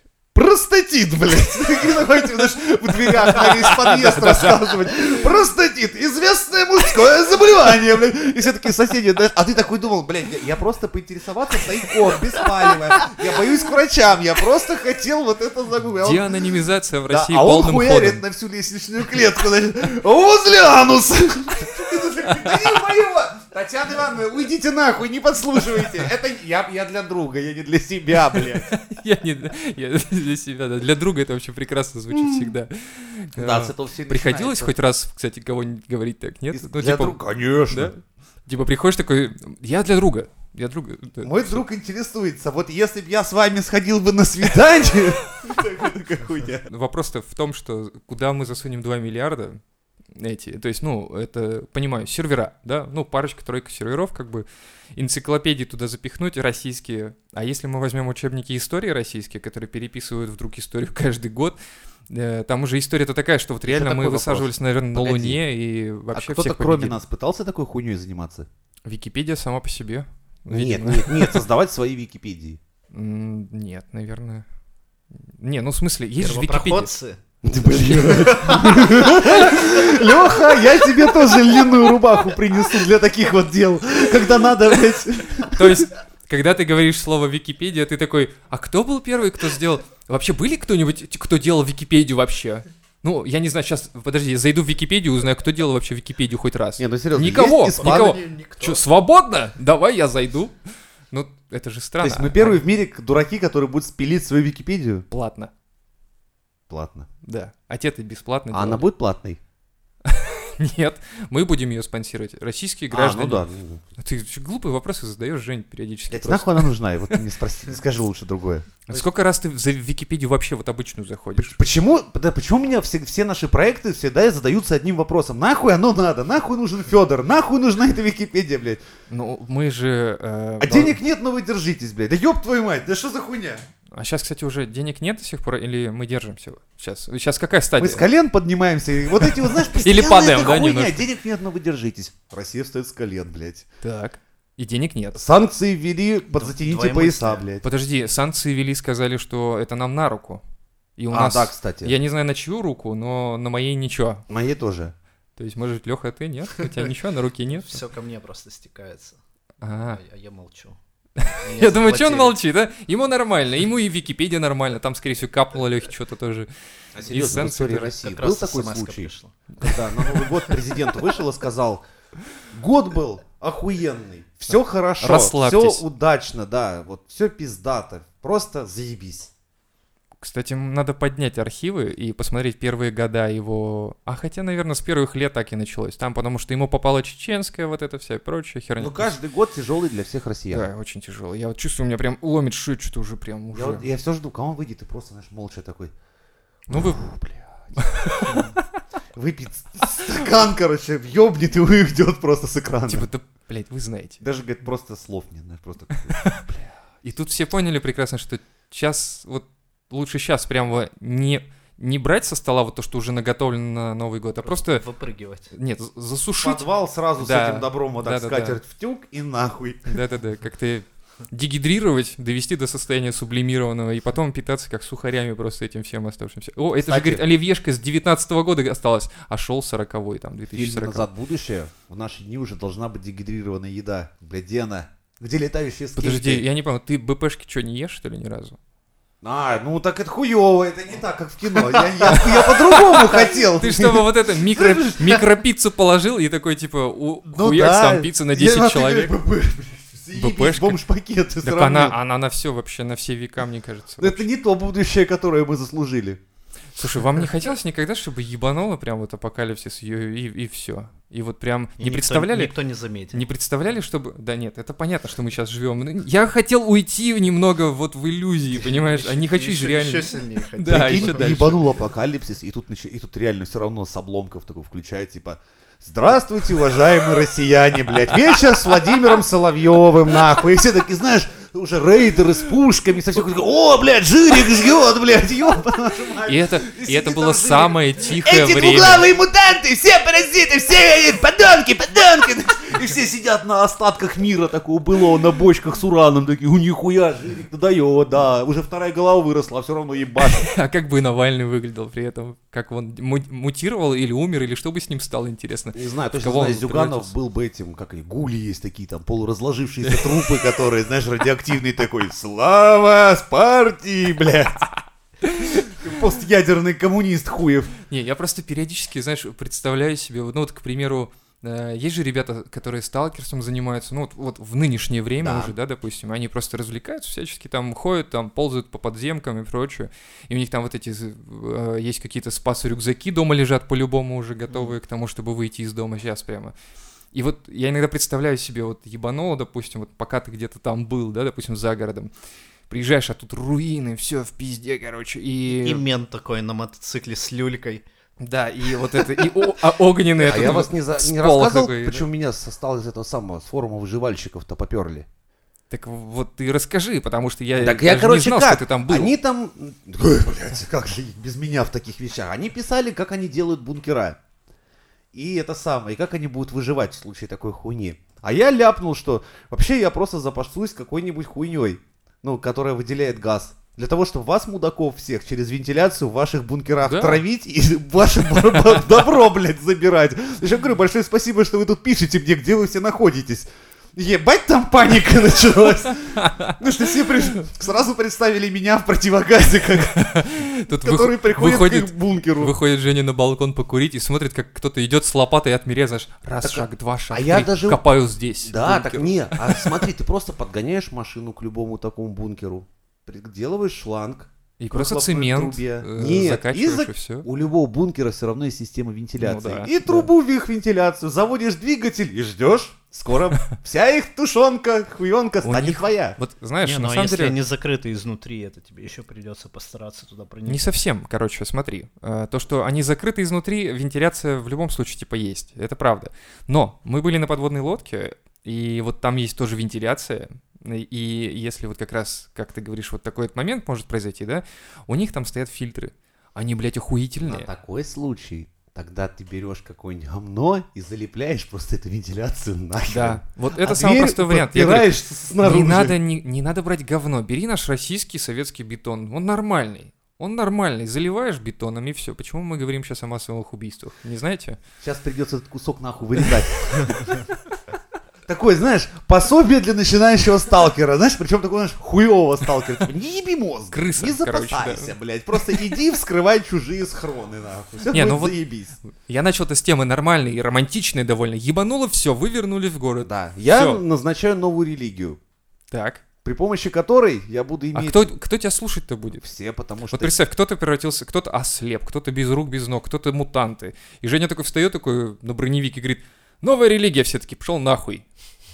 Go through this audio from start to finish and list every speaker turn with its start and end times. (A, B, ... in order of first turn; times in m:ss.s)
0:00.3-0:16.3 A
0:03.1-0:04.9 B
0:16.0-0:18.2 B
0:17.1-0:28.7 A
0:28.3-0:41.6 B
0:32.1-0:32.6 A
0:33.4-0:34.7 A
0:36.5-0:37.9 A
0:41.2-0:46.7 A
0:46.7-0:49.6 B
0:50.2-1:01.6 B
1:02.1-1:07.0 B
1:03.7-1:05.4 A
1:06.1-1:08.5 A
1:08.8-1:11.4 B
1:10.5-1:12.6 A
1:12.9-1:14.4 B
1:15.2-1:16.9 B
1:16.2-1:17.2 C
1:17.4-1:25.8 A
1:17.8-1:20.1 C
1:25.5-1:40.5 B
1:36.8-1:38.2 A
1:37.7-1:38.8 C
1:41.1-1:42.6 B
1:42.0-1:45.0 A
1:45.1-1:45.5 B
1:46.7-1:47.1 A
1:47.2-1:48.9 B
1:48.5-1:49.4 A
1:50.0-1:53.4 B
1:52.9-1:53.8 A
1:54.0-1:57.2 B
1:56.1-1:58.8 A
1:58.9-2:01.6 B
2:01.4-2:08.8 A
2:09.1-2:11.0 B
2:10.6-2:13.7 A
2:13.9-2:18.0 B
2:17.8-2:23.7 A
2:19.7-2:21.0 B
2:23.8-2:25.2 B
2:25.2-2:27.6 A
2:26.3-2:27.4 C
2:27.6-2:30.4 B
2:31.0-2:34.2 B
2:31.1-2:31.9 A
2:34.3-2:34.9 A
2:35.4-2:37.8 B
2:36.6-2:36.9 C
2:37.6-2:39.2 C
2:39.6-2:40.0 B
2:39.9-2:40.8 C
2:41.2-2:46.5 B
2:41.4-2:42.4 C
2:47.0-2:51.8 A
2:47.0-2:47.9 B
2:47.0-2:49.5 C
2:52.5-2:59.3 A
2:55.0-2:55.8 B
3:00.2-3:09.2 B
3:08.8-3:10.7 A
3:10.5-3:13.8 B
3:13.5-3:15.9 A
3:16.7-3:17.0 B
3:16.7-3:17.8 A
3:17.8-3:18.6 B
3:19.1-3:23.1 A
3:22.9-3:24.2 B
3:24.2-3:26.7 A
3:25.9-3:26.4 B
3:27.0-3:34.8 B
3:34.4-3:35.5 C
3:35.5-3:36.6 B
3:36.4-3:40.0 A
3:37.2-3:38.6 B
3:39.9-3:51.1 B
3:46.8-3:47.2 A
3:50.5-3:56.4 A
3:56.0-3:58.6 B
3:59.2-4:05.2 A
4:02.1-4:09.1 B
4:07.3-4:12.0 A
4:10.1-4:10.8 B
4:11.4-4:14.3 B
4:14.0-4:16.2 A
4:16.8-4:22.5 B
4:21.8-4:23.3 C
4:23.1-4:31.5 B
4:28.5-4:31.6 C
4:30.7-5:00.5 A
4:46.3-4:49.1 B
5:00.2-5:07.1 B
5:05.7-5:14.7 A
5:09.9-5:10.2 B
5:15.3-5:15.5 B
5:15.4-5:17.7 A
5:17.9-5:36.5 B
5:25.2-5:25.5 A
5:37.1-5:42.1 B
5:42.7-5:45.8 B
5:45.5-5:47.8 C
5:48.2-5:52.0 B
5:50.2-5:55.1 A
5:55.7-5:59.1 B
5:57.6-6:04.2 A
6:05.1-6:30.0 A
6:16.9-6:17.2 B
6:26.2-6:26.5 B
6:29.9-6:39.8 B
6:30.7-6:32.6 A
6:36.4-6:37.8 A
6:38.4-6:56.2 A
6:44.6-6:47.3 B
6:49.2-6:50.1 B
6:55.4-6:57.4 B
6:56.6-7:00.7 C
7:00.5-7:17.5 B
7:17.2-7:26.0 A
7:22.9-7:34.6 B
7:34.8-7:37.2 A
7:38.3-7:48.8 A
7:43.7-7:45.0 B
7:47.9-7:53.8 B
7:53.0-7:55.2 A
7:55.7-7:56.0 B
7:56.2-7:58.1 A
7:57.8-7:59.2 B
7:59.2-8:00.2 A
7:59.9-8:08.0 B